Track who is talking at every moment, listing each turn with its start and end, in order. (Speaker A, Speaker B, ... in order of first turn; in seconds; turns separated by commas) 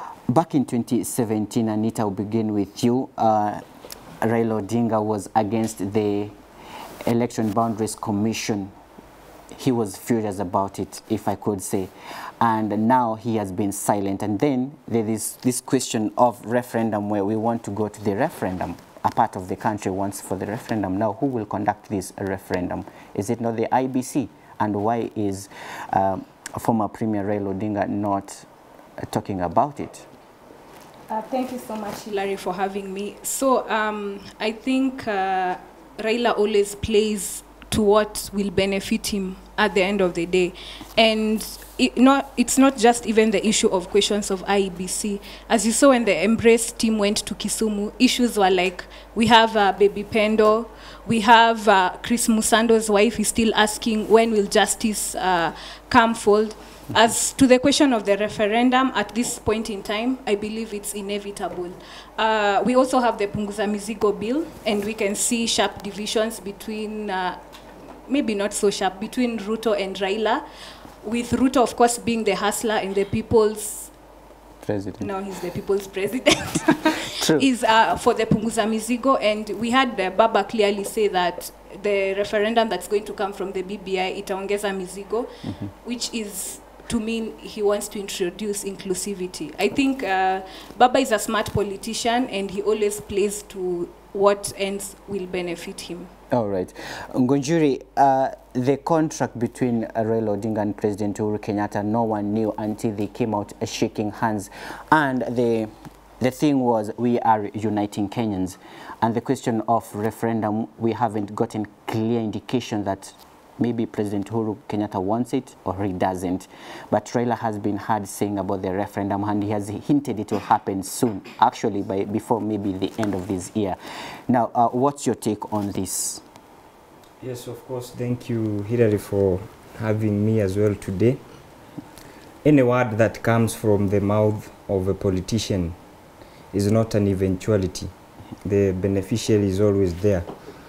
Speaker A: 0.3-3.6, Speaker A: 4.2-6.3, Speaker A: 7.0-8.7, Speaker A: 9.5-28.5, Speaker A: 29.0-30.1, Speaker B: 31.1-67.4, Speaker B: 68.1-70.4, Speaker B: 71.0-73.9, Speaker A: 74.6-75.1, Speaker B: 75.0-96.1, Speaker A: 77.1-77.5, Speaker A: 96.3-126.2, Speaker C: 127.2-131.2, Speaker C: 132.4-135.8, Speaker C: 136.5-137.9, Speaker C: 138.4-140.3